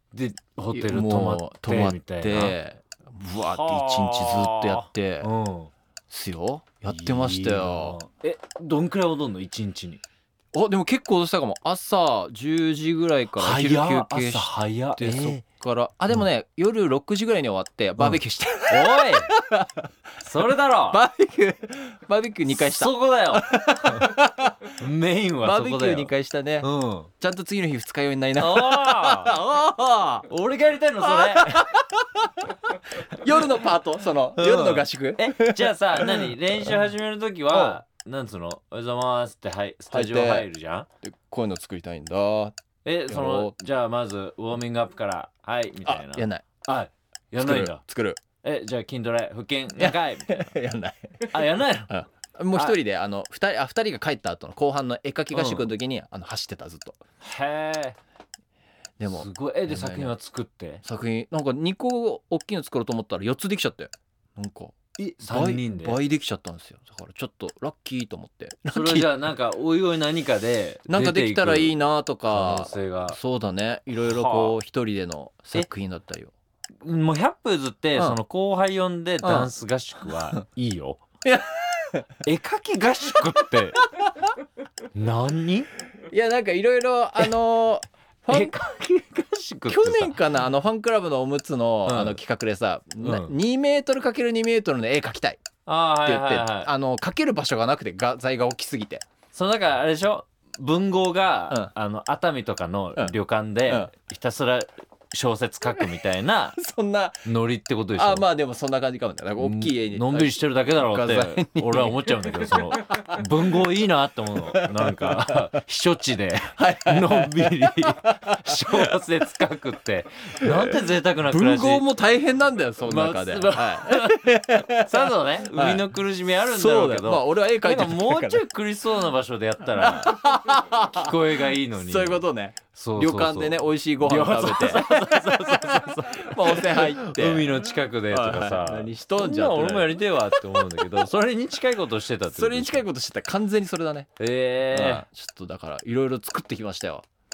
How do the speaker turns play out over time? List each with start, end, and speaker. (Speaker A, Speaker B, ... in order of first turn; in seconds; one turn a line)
Speaker A: 0.1-2.5
Speaker B: 0.7-5.3
Speaker A: 3.5-5.7
Speaker B: 6.1-8.0
Speaker A: 6.8-10.0
Speaker B: 10.5-19.8
Speaker A: 13.3-15.4
Speaker A: 18.0-19.3
Speaker A: 20.2-21.0
Speaker B: 20.9-24.7
Speaker A: 22.5-24.1
Speaker A: 24.8-27.1
Speaker B: 25.4-26.7
Speaker B: 27.2-30.2
Speaker A: 28.4-29.3
Speaker A: 30.3-31.5
Speaker B: 31.0-36.7
Speaker A: 34.4-40.9
Speaker B: 37.5-37.8
Speaker B: 39.9-40.5
Speaker B: 41.0-42.5
Speaker A: 42.8-47.8
Speaker B: 43.1-43.5
Speaker B: 45.8-46.4
Speaker B: 47.4-48.2
Speaker A: 48.4-50.5
Speaker B: 49.8-57.0
Speaker A: 51.3-51.9
Speaker A: 55.3-55.6
Speaker A: 57.2-58.0
Speaker B: 59.0-60.1
Speaker A: 59.0-60.8
Speaker B: 60.8-69.1
Speaker A: 65.0-66.0
Speaker A: 68.7-71.7
Speaker B: 70.9-76.3
Speaker A: 72.3-73.2
Speaker A: 74.0-74.6
Speaker A: 76.8-81.0
Speaker B: 79.2-79.5
Speaker B: 81.2-82.1
Speaker A: 82.2-83.8
Speaker A: 84.9-85.7
Speaker B: 86.1-88.6
Speaker A: 88.3-90.2
Speaker B: 89.7-95.4
Speaker A: 91.8-92.2
Speaker A: 93.0-93.3
Speaker A: 95.7-96.7
Speaker B: 96.0-99.0
Speaker A: 99.3-106.6
Speaker B: 106.5-107.2
Speaker A: 107.2-108.2
Speaker B: 108.0-113.2
Speaker A: 109.4-121.8
Speaker B: 114.5-115.3
Speaker B: 116.6-118.9
Speaker B: 120.4-128.4
Speaker A: 122.8-124.2
Speaker A: 124.8-130.2
Speaker B: 129.8-134.9
Speaker A: 130.9-142.9
Speaker B: 135.7-141.1
Speaker B: 142.3-144.1
Speaker A: 144.2-145.0
Speaker B: 144.7-147.0